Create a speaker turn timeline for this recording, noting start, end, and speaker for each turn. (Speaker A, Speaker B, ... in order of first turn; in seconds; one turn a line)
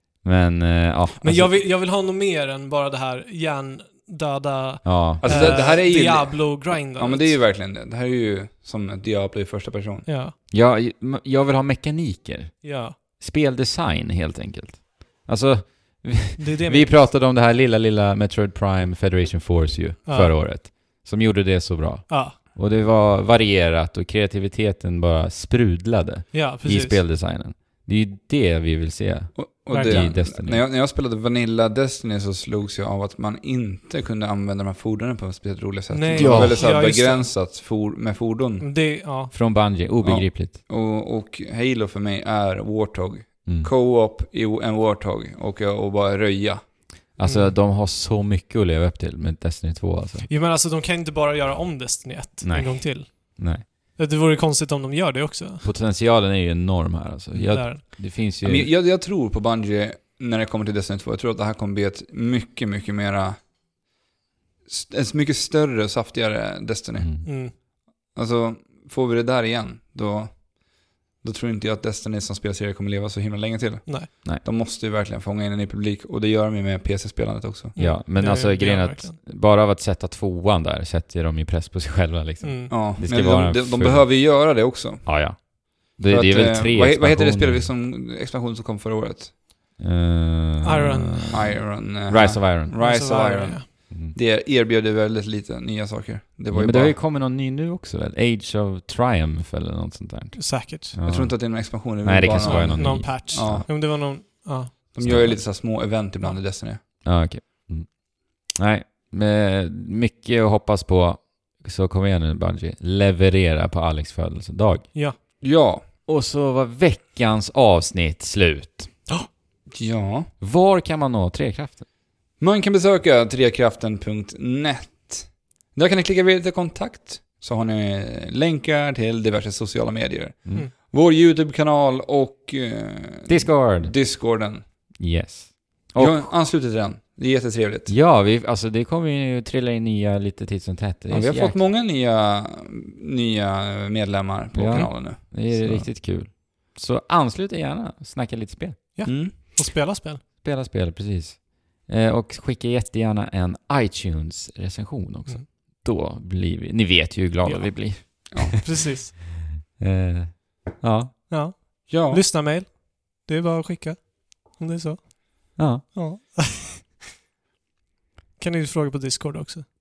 Speaker A: 0.2-1.6
Speaker B: 1.2-7.4
Speaker A: 4.8-5.7
Speaker C: 5.2-10.1
Speaker B: 10.1-10.3
Speaker A: 10.5-30.6
Speaker B: 12.6-12.9
Speaker B: 16.4-17.1
Speaker B: 20.1-20.4
Speaker B: 22.1-22.4
Speaker B: 26.3-27.0
Speaker C: 29.3-38.7
Speaker B: 29.7-30.1
Speaker B: 35.9-37.3
Speaker A: 36.1-36.7
Speaker B: 38.6-39.3
Speaker A: 39.3-40.6
Speaker C: 40.0-46.7
Speaker A: 43.5-43.7
Speaker A: 47.1-50.3
Speaker B: 47.2-47.5
Speaker B: 50.3-55.7
Speaker A: 52.4-53.6
Speaker A: 55.6-58.7
Speaker C: 57.3-63.5
Speaker B: 57.5-57.8
Speaker C: 64.7-77.8
Speaker A: 67.0-67.3
Speaker B: 67.2-67.5
Speaker B: 77.7-79.2
Speaker A: 77.8-84.3
Speaker B: 82.4-82.7
Speaker C: 82.7-89.3
Speaker A: 85.0-87.7
Speaker A: 89.8-92.8
Speaker B: 90.6-91.5
Speaker C: 91.3-97.0
Speaker B: 92.8-93.7
Speaker A: 93.9-94.2
Speaker A: 96.5-103.7
Speaker B: 100.3-100.9
Speaker C: 101.0-103.7
Speaker B: 102.4-104.8
Speaker C: 104.9-106.8
Speaker A: 105.0-105.4
Speaker A: 107.0-114.9
Speaker C: 115.4-115.8
Speaker A: 116.0-119.0
Speaker C: 119.7-120.3
Speaker A: 120.4-121.9
Speaker C: 122.4-134.6
Speaker A: 133.3-134.0
Speaker A: 135.0-136.3
Speaker C: 136.0-137.9
Speaker A: 137.9-141.6
Speaker C: 141.1-145.9
Speaker A: 144.5-148.8
Speaker B: 148.9-150.2
Speaker C: 149.1-149.3
Speaker A: 150.4-158.5
Speaker B: 157.4-159.1
Speaker C: 158.3-158.6
Speaker A: 159.7-161.2
Speaker B: 161.3-166.9
Speaker C: 161.9-162.2
Speaker A: 165.6-165.8
Speaker B: 168.4-169.7